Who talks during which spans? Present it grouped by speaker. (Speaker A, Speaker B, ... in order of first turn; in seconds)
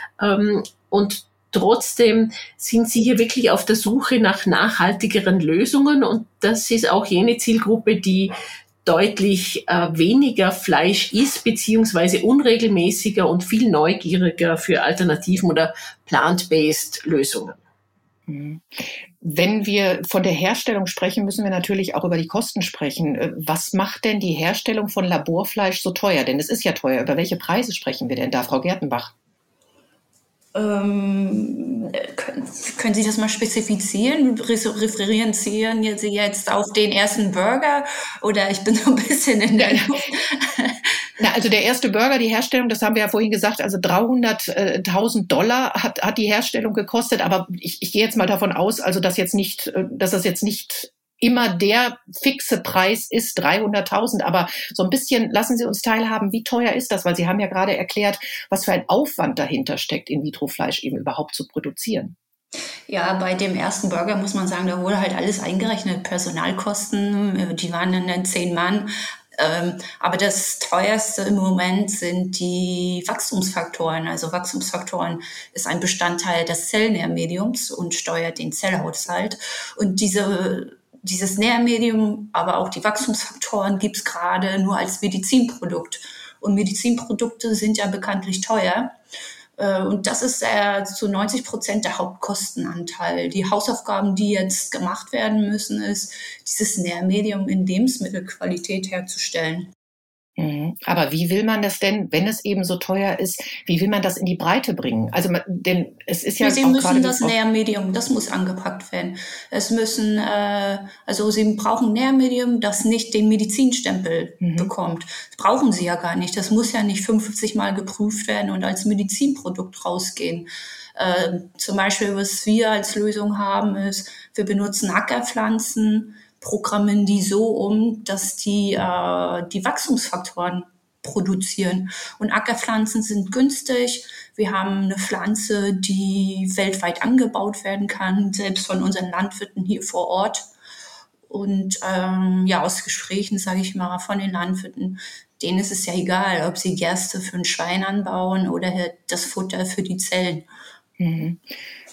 Speaker A: 0.2-17.6
Speaker B: 18.3-29.1, 39.6-40.0, 41.2-62.1, 100.4-107.3, 114.4-114.7, 151.0-151.5
Speaker C: 30.5-40.8, 62.9-88.9, 89.6-99.7, 106.4-140.5, 141.3-150.5